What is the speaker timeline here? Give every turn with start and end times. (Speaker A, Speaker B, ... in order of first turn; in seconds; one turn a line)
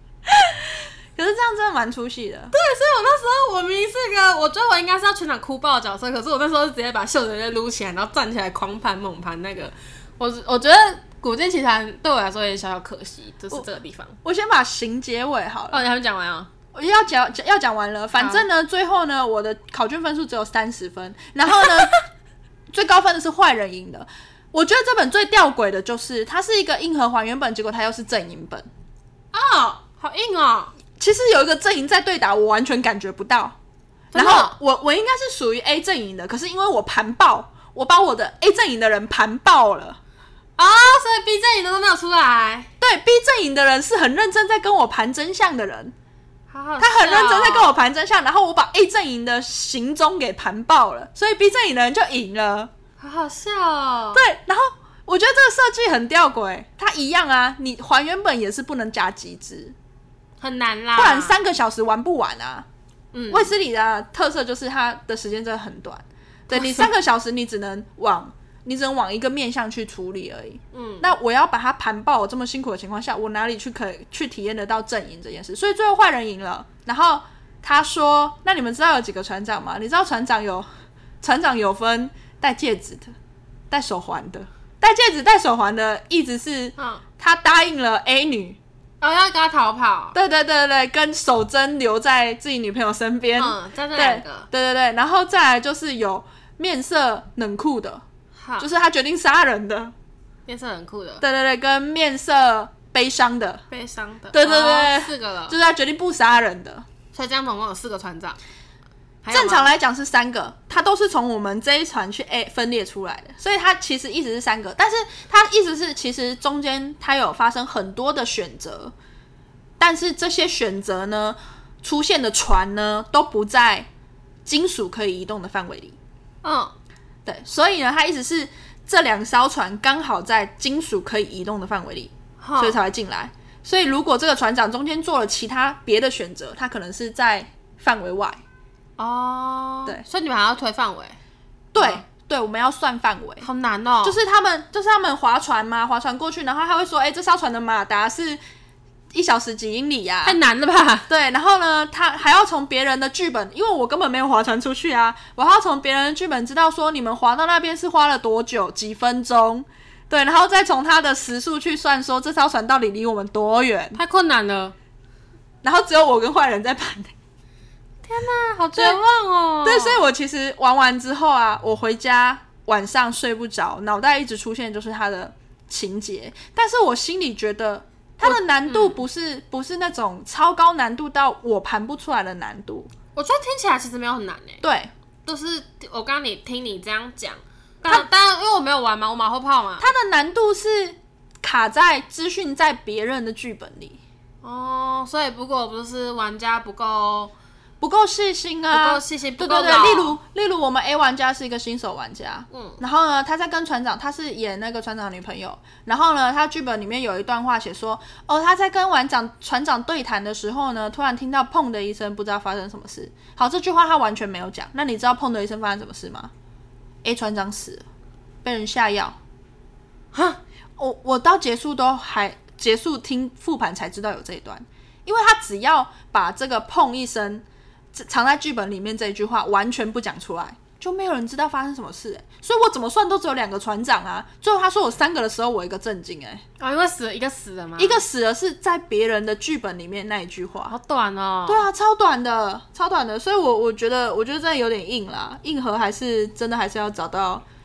Speaker A: 0.3-2.5
Speaker B: 2.5-14.2
Speaker A: 14.2-15.8
Speaker B: 15.7-16.5
Speaker A: 16.7-21.9
Speaker B: 18.2-18.5
Speaker B: 21.6-22.0
Speaker A: 22.7-28.7
Speaker B: 29.3-30.7
Speaker A: 31.0-33.6
Speaker B: 34.1-34.6
Speaker A: 34.1-40.0
Speaker B: 40.6-42.7
Speaker A: 42.8-45.9
Speaker B: 46.5-47.8
Speaker A: 46.8-52.7
Speaker B: 53.0-54.2
Speaker A: 54.1-59.8
Speaker B: 60.4-61.4
Speaker A: 61.0-62.7
Speaker B: 63.1-63.5
Speaker A: 63.3-80.7
Speaker B: 66.5-66.9
Speaker B: 70.7-71.1
Speaker A: 81.2-83.1
Speaker A: 83.7-88.6
Speaker B: 86.8-87.0
Speaker B: 89.0-90.2
Speaker A: 90.2-98.0
Speaker B: 93.4-94.5
Speaker B: 98.4-98.7
Speaker A: 98.6-99.9
Speaker B: 100.5-101.2
Speaker A: 101.2-103.6
Speaker B: 103.7-105.6
Speaker A: 104.3-106.9
Speaker B: 107.1-108.4
Speaker B: 109.2-109.7
Speaker A: 109.3-118.9
Speaker A: 119.8-123.9
Speaker A: 124.5-126.0
Speaker B: 126.4-126.7
Speaker A: 127.3-138.4
Speaker B: 132.4-132.8
Speaker B: 139.0-141.2
Speaker A: 141.7-143.5
Speaker B: 141.8-142.0
Speaker B: 143.4-144.2
Speaker A: 144.0-148.4
Speaker A: 149.1-150.4
Speaker B: 150.2-151.1
Speaker A: 151.1-164.0
Speaker B: 163.9-164.8
Speaker A: 165.6-167.1
Speaker B: 168.1-170.0
Speaker A: 169.6-182.9
Speaker B: 178.2-179.0
Speaker B: 183.2-184.6
Speaker A: 184.6-184.9
Speaker B: 185.2-189.9
Speaker A: 189.8-194.0
Speaker B: 194.4-197.3
Speaker A: 197.8-216.3
Speaker B: 198.7-200.2
Speaker B: 202.5-202.8
Speaker A: 217.0-217.8
Speaker A: 218.4-219.2
Speaker B: 220.1-220.4
Speaker A: 220.8-236.4
Speaker B: 236.6-238.0
Speaker A: 237.8-240.7
Speaker B: 240.7-241.7
Speaker A: 241.5-247.4